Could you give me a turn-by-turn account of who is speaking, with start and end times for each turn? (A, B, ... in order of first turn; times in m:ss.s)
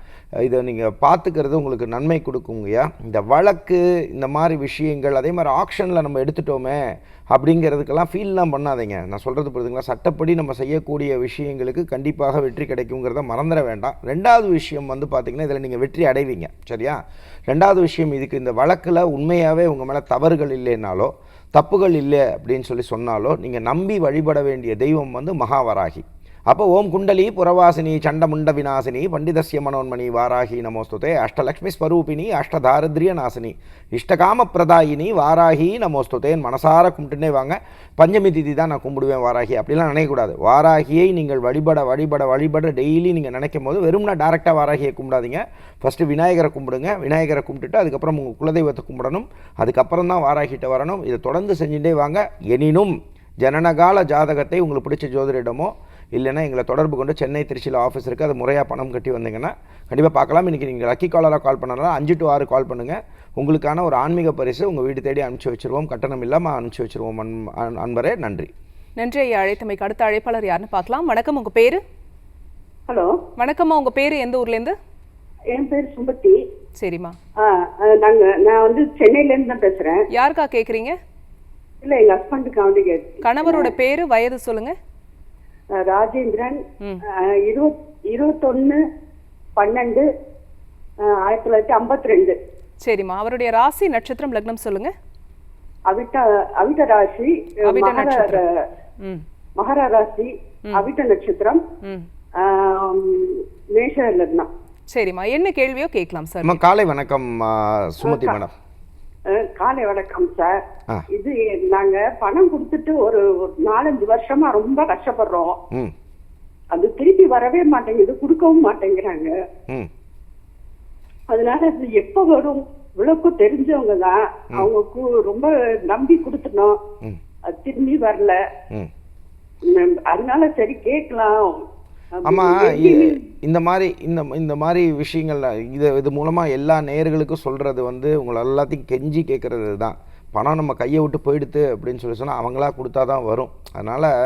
0:00.4-1:08.5 A
1:09.0-1:11.8 B
1:12.9-1:13.2 C
1:13.4-1:14.8 B
1:15.5-1:16.4 C
1:16.8-1:17.2 B
1:17.4-1:20.0 C
1:20.1-1:21.0 B
1:21.8-1:23.7 C
1:23.2-1:24.8 B
1:25.8-1:28.8 C
1:29.6-1:30.1 C
1:31.0-1:32.4 C
1:32.8-1:34.9 B
1:35.9-1:38.6 C
1:37.6-1:38.4 B
1:39.6-1:41.6 C
1:41.8-1:42.1 B
1:42.4-1:44.5 C
1:44.9-1:46.6 B
1:46.4-1:48.5 A
1:48.0-1:48.4 C
1:49.3-1:55.6 C
1:56.7-1:59.3 C
2:01.3-2:06.8 C
2:07.5-2:08.4 C
2:09.6-2:11.6 C
2:12.2-2:13.2 C
2:12.2-2:24.1 A